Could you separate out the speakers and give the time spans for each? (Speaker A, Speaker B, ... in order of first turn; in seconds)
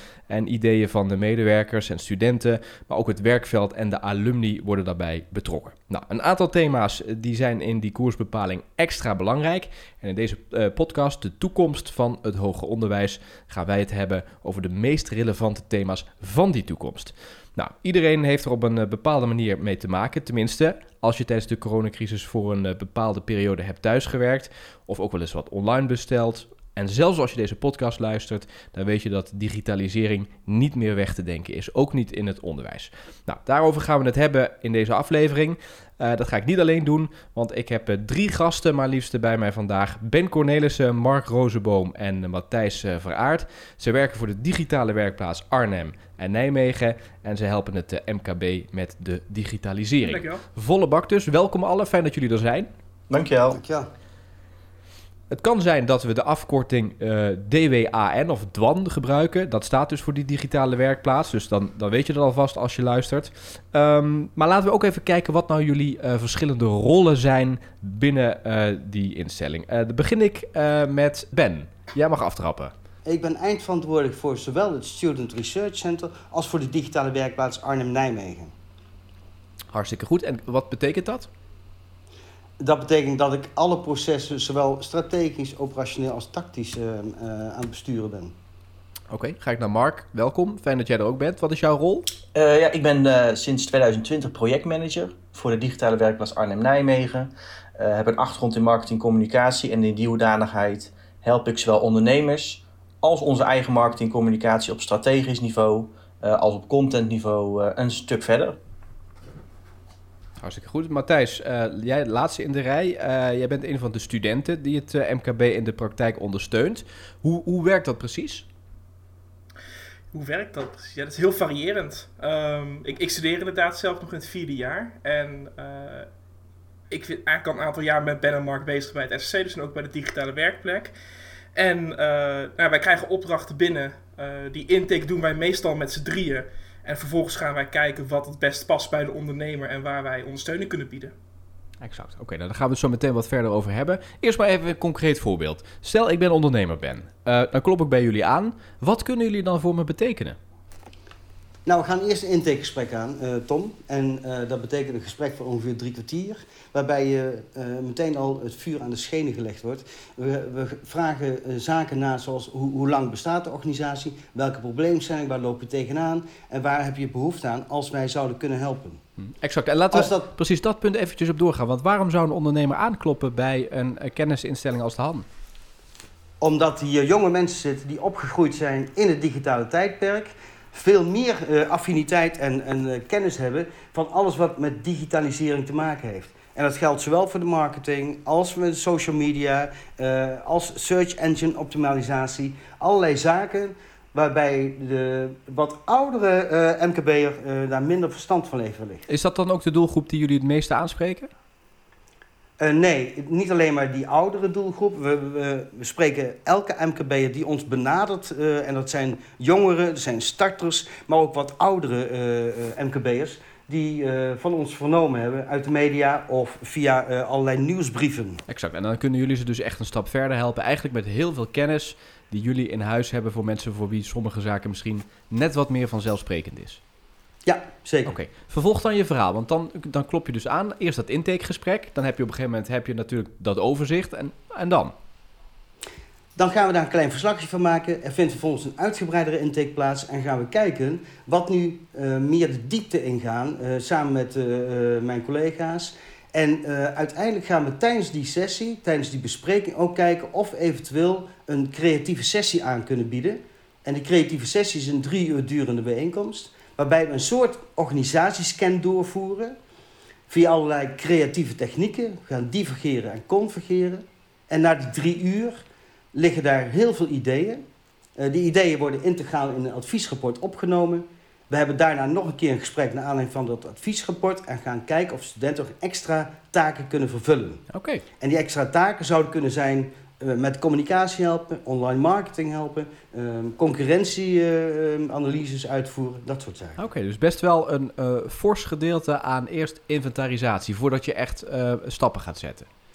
Speaker A: 0.3-52.7, 55.3-72.7, 79.7-81.3, 89.1-92.1, 110.4-118.4, 141.8-150.4, 169.2-175.2, 199.1-201.3, 218.5-226.8, 228.0-234.9, 277.7-278.0, 286.8-292.7
Speaker B: 50.0-50.4, 120.1-126.1, 126.9-130.9, 131.5-141.1
Speaker C: 53.1-53.6, 92.3-108.6
Speaker D: 53.5-53.9, 73.0-78.5, 82.6-88.3, 151.6-169.0, 169.9-170.3, 176.4-199.1, 202.6-218.4, 227.4-228.2, 236.3-259.5, 260.3-267.6, 268.2-277.6, 278.2-286.8